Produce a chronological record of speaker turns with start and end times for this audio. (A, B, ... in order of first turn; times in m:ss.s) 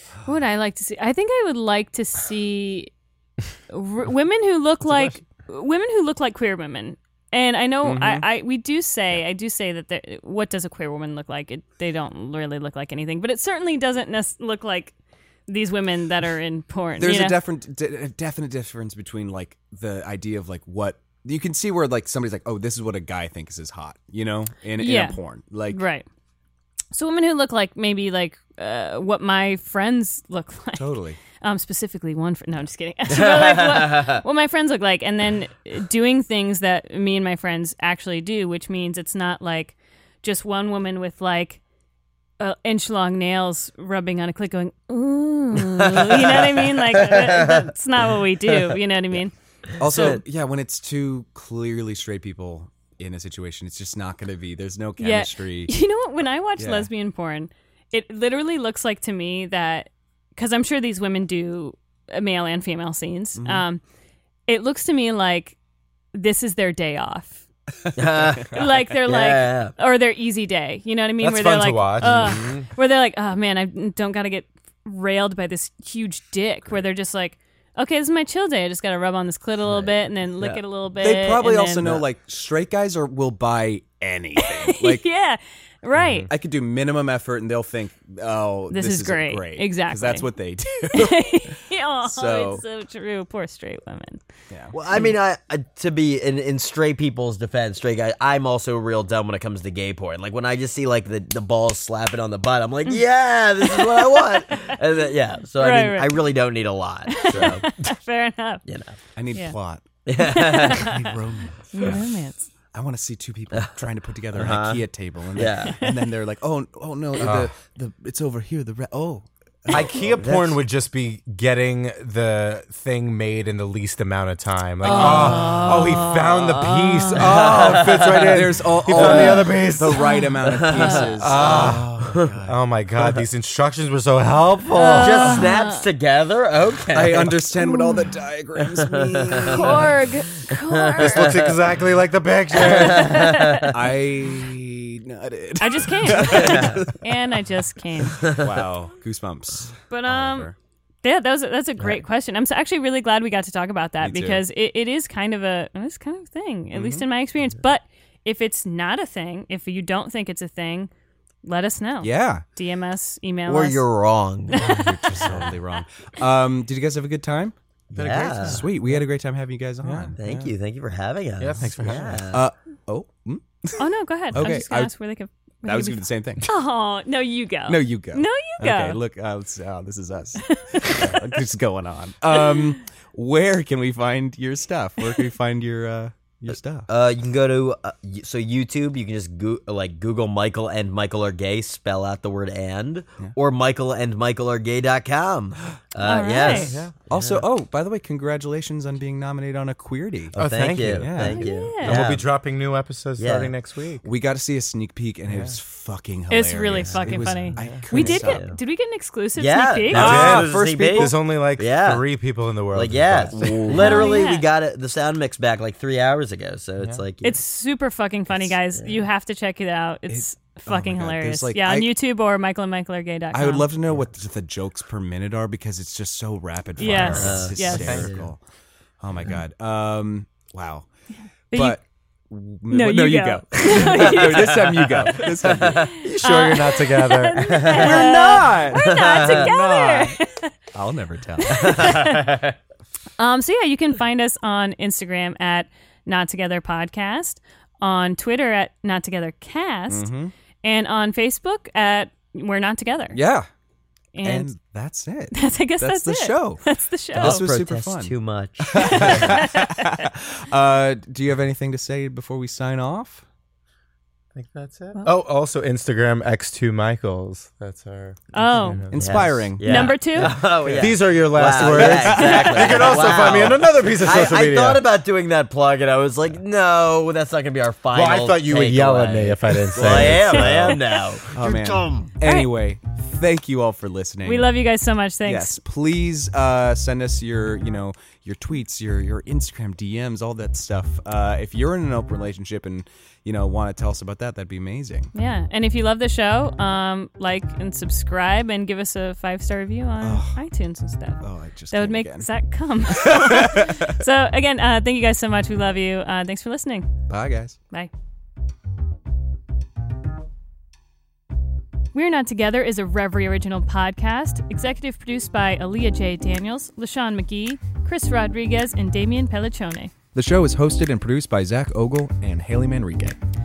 0:00.2-0:02.9 A
0:03.7-0:14.9 A
0:07.8-0:08.3 B
0:15.5-0:17.4 A
0:17.0-0:25.8 B
0:24.8-0:25.2 A
0:25.7-0:26.0 A
0:26.9-0:41.6 A
0:30.8-0:31.2 B
0:33.1-0:34.2 C
0:42.4-0:49.3 A
0:45.5-0:47.7 C
0:49.8-0:55.7 B
0:49.9-0:50.2 C
0:55.0-1:03.8 A
0:56.6-0:56.9 B
1:03.4-1:03.6 B
1:04.5-1:05.6 A
1:06.1-1:07.4 A
1:07.8-1:08.7 B
1:08.0-1:09.7 C
1:08.5-1:21.9 A
1:11.2-1:12.5 D
1:12.0-1:12.7 C
1:19.7-1:20.6 C
1:21.0-1:25.0 B
1:24.4-1:26.3 A
1:26.0-1:26.3 D
1:26.3-1:31.4 B
1:28.7-1:30.3 A
1:30.8-1:34.2 A
1:32.0-1:32.6 B
1:34.7-1:47.6 C
1:43.6-1:44.8 A
1:45.6-1:46.2 A
1:47.1-1:48.6 A
1:47.3-1:47.6 D
1:48.7-1:49.0 C
1:49.2-1:49.8 B
1:50.0-1:51.0 C
1:50.2-1:51.1 A
1:50.4-1:52.0 B
1:51.7-1:52.5 A
1:52.7-2:00.0 B
1:53.5-1:55.8 C
1:57.2-1:57.5 D
1:59.7-2:10.1 D
1:59.7-2:00.6 C
2:04.8-2:07.4 A
2:04.9-2:06.1 C
2:07.1-2:09.5 C
2:08.3-2:12.5 B
2:10.0-2:11.0 A
2:10.5-2:12.5 C
2:11.2-2:15.5 D
2:14.7-2:15.8 A
2:14.9-2:17.4 C
2:16.9-2:20.0 B
2:17.6-2:18.1 A
2:18.6-2:19.8 C
2:19.5-2:21.5 A
2:20.5-2:21.6 C
2:21.0-2:23.5 D
2:22.5-2:23.8 C
2:22.6-2:23.7 A
2:23.6-2:27.1 B
2:25.6-2:28.4 A
2:26.4-2:26.8 C
2:28.2-2:30.5 B
2:29.9-2:30.5 A
2:31.0-2:40.9 A
2:34.0-2:34.4 B
2:36.7-2:37.0 B
2:41.4-2:43.8 A
2:42.0-2:42.4 B
2:43.5-2:45.4 C
2:44.5-2:44.9 A
2:44.5-2:47.5 B
2:47.9-2:48.6 C
2:48.0-2:49.0 D
2:48.4-2:50.5 B
2:49.8-2:50.1 D
2:50.2-2:52.4 C
2:51.4-2:52.2 D
2:52.3-2:54.9 B
2:53.8-2:59.0 A
2:55.6-2:56.5 B
2:57.7-3:06.9 B
3:00.4-3:01.4 A
3:06.9-3:17.4 C
3:16.0-3:16.7 A
3:16.4-3:16.9 D
3:17.1-3:20.4 B
3:20.3-3:22.2 C
3:20.4-3:24.0 D
3:21.0-3:21.5 B
3:21.2-3:22.0 A
3:23.2-3:23.5 C
3:24.0-3:28.4 B
3:25.3-3:25.6 D
3:26.3-3:30.4 A
3:27.6-3:27.8 D
3:27.9-3:28.6 C
3:29.4-3:32.0 C
3:29.9-3:31.1 B
3:29.9-3:33.7 D
3:32.7-3:37.4 C
3:33.3-3:34.1 B
3:33.7-3:34.5 A
3:37.2-3:43.7 A
3:38.8-3:39.0 C
3:40.1-3:41.9 B
3:43.3-3:48.4 B
3:46.8-3:48.1 A
3:47.1-3:48.2 C
3:47.7-3:48.1 D
3:49.0-3:50.9 B
3:51.5-3:51.8 A
3:51.5-3:55.9 B
3:52.7-3:54.9 A
3:54.0-3:55.9 C
3:55.8-4:00.5 A
3:56.0-3:57.7 D
3:57.4-3:59.5 C
3:57.7-4:00.2 B
4:00.7-4:01.9 B
4:01.4-4:02.4 A
4:01.5-4:02.5 C
4:03.2-4:10.1 A
4:09.9-4:10.3 B
4:10.6-4:13.2 A
4:13.1-4:13.5 B
4:14.1-4:14.5 A
4:14.2-4:16.6 B
4:15.3-4:17.4 A
4:17.1-4:19.3 C
4:17.1-4:23.2 B
4:18.9-4:19.8 A
4:24.3-4:29.0 D
4:28.3-4:28.8 A
4:28.9-4:30.0 B
4:29.0-4:42.1 C
4:29.6-4:30.4 A
4:30.8-4:34.8 D
4:31.6-4:32.5 B
4:32.1-4:32.9 A
4:37.9-4:40.7 D
4:39.7-4:44.5 B
4:40.3-4:41.0 A
4:42.2-4:42.5 A
4:44.2-4:45.6 A
4:45.2-4:55.1 B
4:55.1-5:06.9 A
5:00.0-5:00.4 B
5:01.2-5:02.3 B
5:02.9-5:04.0 B
5:07.1-5:07.6 B
5:11.9-5:19.9 A
5:20.1-5:23.2 B